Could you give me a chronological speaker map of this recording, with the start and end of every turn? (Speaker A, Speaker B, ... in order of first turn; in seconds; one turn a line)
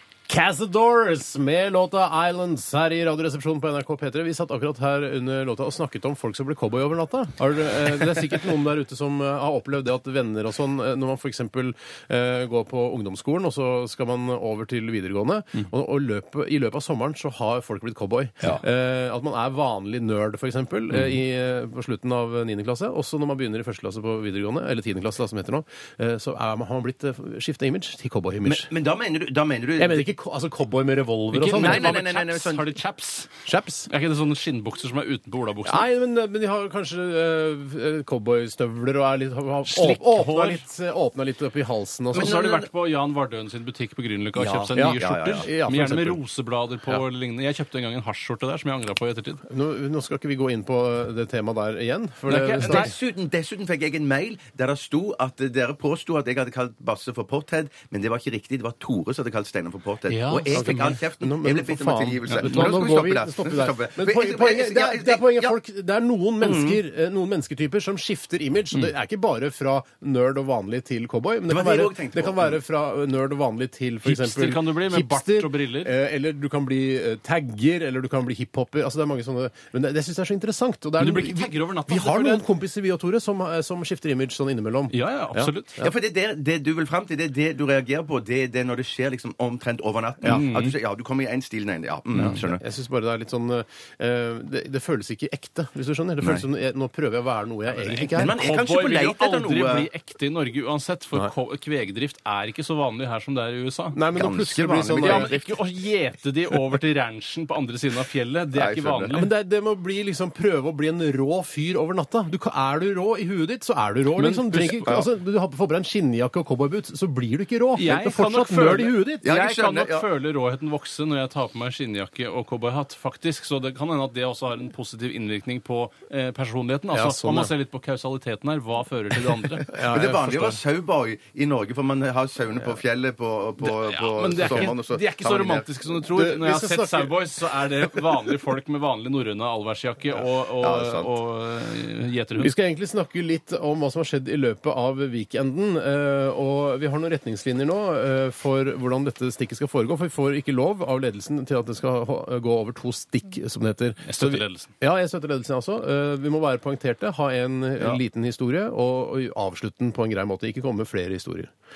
Speaker A: 0.3-28.7
Speaker B: 28.4-30.1
Speaker A: 29.8-31.9
Speaker C: 31.3-33.3
Speaker B: 31.5-32.7
Speaker A: 33.4-33.9
Speaker C: 33.9-35.9
Speaker A: 35.6-42.4
Speaker C: 39.7-40.6
Speaker C: 42.1-49.4
Speaker B: 42.1-42.7
Speaker B: 44.3-45.5
Speaker A: 44.7-46.2
Speaker A: 49.5-52.9
Speaker C: 52.3-52.9
Speaker B: 52.6-65.5
Speaker C: 60.1-61.0
Speaker A: 60.5-85.9
Speaker C: 62.3-62.8
Speaker B: 66.4-66.8
Speaker B: 71.5-72.6
Speaker C: 74.0-75.9
Speaker C: 81.0-82.4
Speaker C: 84.9-85.7
Speaker B: 85.8-92.6
Speaker C: 90.2-90.8
Speaker A: 92.2-98.3
Speaker C: 97.8-104.0
Speaker B: 98.1-99.9
Speaker A: 103.9-105.4
Speaker B: 104.1-105.6
Speaker C: 105.0-109.3
Speaker B: 108.5-109.2
Speaker A: 109.1-119.2
Speaker C: 114.2-115.0
Speaker C: 117.8-129.8
Speaker B: 119.2-120.1
Speaker A: 126.9-127.5
Speaker A: 129.7-130.6
Speaker B: 129.7-135.7
Speaker C: 133.6-142.5
Speaker A: 134.4-134.7
Speaker A: 136.1-137.2
Speaker B: 140.5-141.1
Speaker A: 142.4-161.5
Speaker C: 154.0-154.7